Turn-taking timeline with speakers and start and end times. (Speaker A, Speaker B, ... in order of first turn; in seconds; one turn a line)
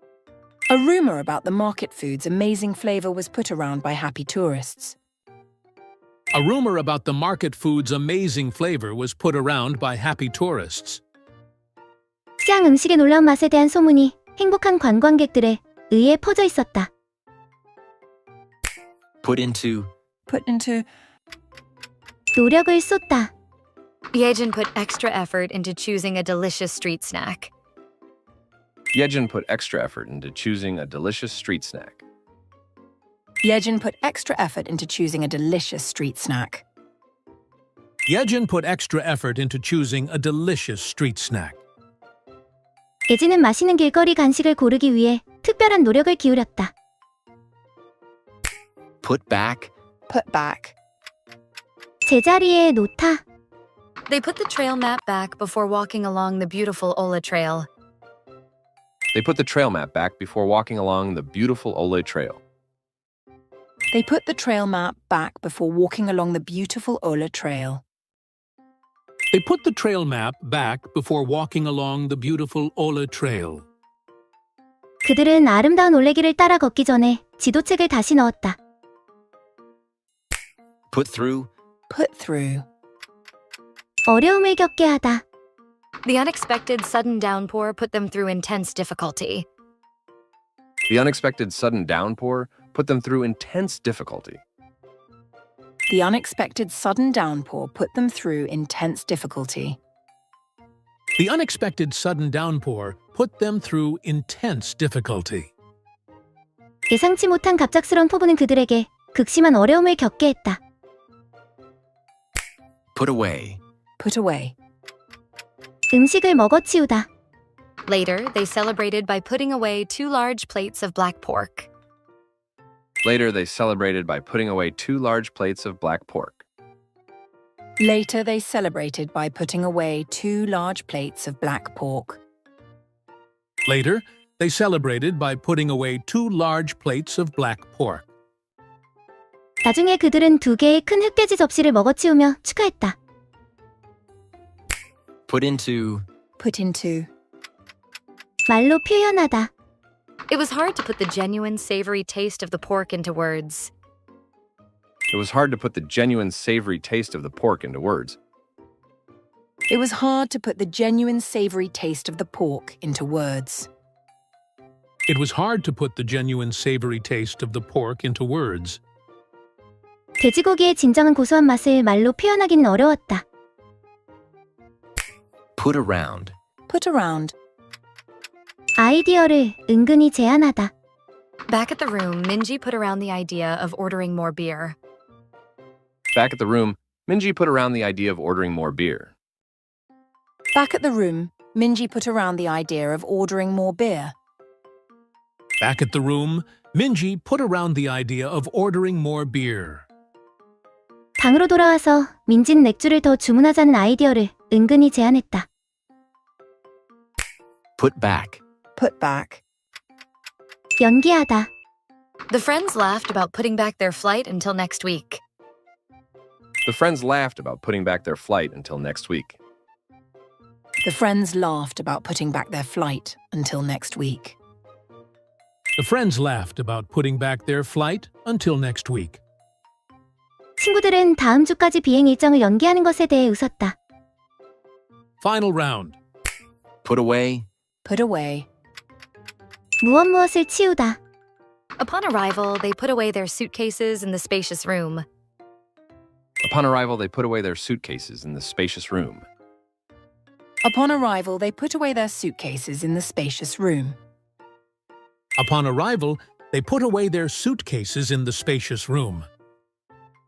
Speaker A: 0.7-5.0
Speaker B: 6.3-11.0
Speaker C: 12.4-16.9
Speaker D: 19.2-19.9
Speaker A: 20.3-20.9
Speaker C: 22.4-23.3
Speaker E: 24.1-27.5
Speaker F: 28.9-32.0
Speaker A: 33.4-36.6
Speaker B: 38.1-41.6
Speaker C: 43.1-46.7
Speaker D: 49.0-49.7
Speaker A: 50.1-50.8
Speaker C: 52.1-53.2
Speaker E: 54.1-57.7
Speaker F: 59.1-62.4
Speaker A: 63.9-67.8
Speaker B: 69.3-73.7
Speaker C: 75.0-78.6
Speaker D: 80.9-81.5
Speaker A: 81.9-82.7
Speaker C: 84.1-85.2
Speaker E: 86.0-89.5
Speaker F: 90.9-94.4
Speaker A: 95.9-99.8
Speaker B: 101.2-105.5
Speaker C: 106.9-110.6
Speaker D: 113.0-113.6
Speaker A: 114.0-114.5
Speaker C: 115.9-117.1
Speaker E: 117.9-121.7
Speaker F: 123.0-126.4
Speaker A: 127.8-132.2
Speaker B: 133.7-138.1
Speaker C: 139.7-143.0
Speaker D: 145.3-146.1
Speaker A: 146.4-147.1
Speaker C: 148.5-149.5
Speaker E: 150.3-153.7
Speaker F: 155.1-158.2
Speaker A: 159.7-163.7
Speaker B: 165.1-168.8
Speaker C: 170.2-173.2
Speaker D: 175.6-176.4
Speaker A: 176.7-177.3
Speaker C: 178.8-180.7
Speaker E: 181.5-184.8
Speaker F: 186.1-189.1
Speaker A: 190.5-194.2
Speaker B: 195.6-199.9
Speaker C: 201.2-205.5
Speaker D: 207.8-208.4
Speaker A: 208.8-209.4
Speaker C: 210.8-211.5
Speaker E: 212.3-215.2
Speaker F: 216.7-219.4
Speaker A: 220.8-224.4
Speaker B: 225.8-229.2
Speaker C: 230.6-233.8
Speaker B: 235.2-236.0
Speaker D: 236.8-237.5
Speaker A: 237.8-238.5
Speaker C: 239.8-241.0
Speaker E: 241.8-245.1
Speaker F: 246.4-249.3
Speaker A: 250.6-254.0
Speaker B: 255.4-259.3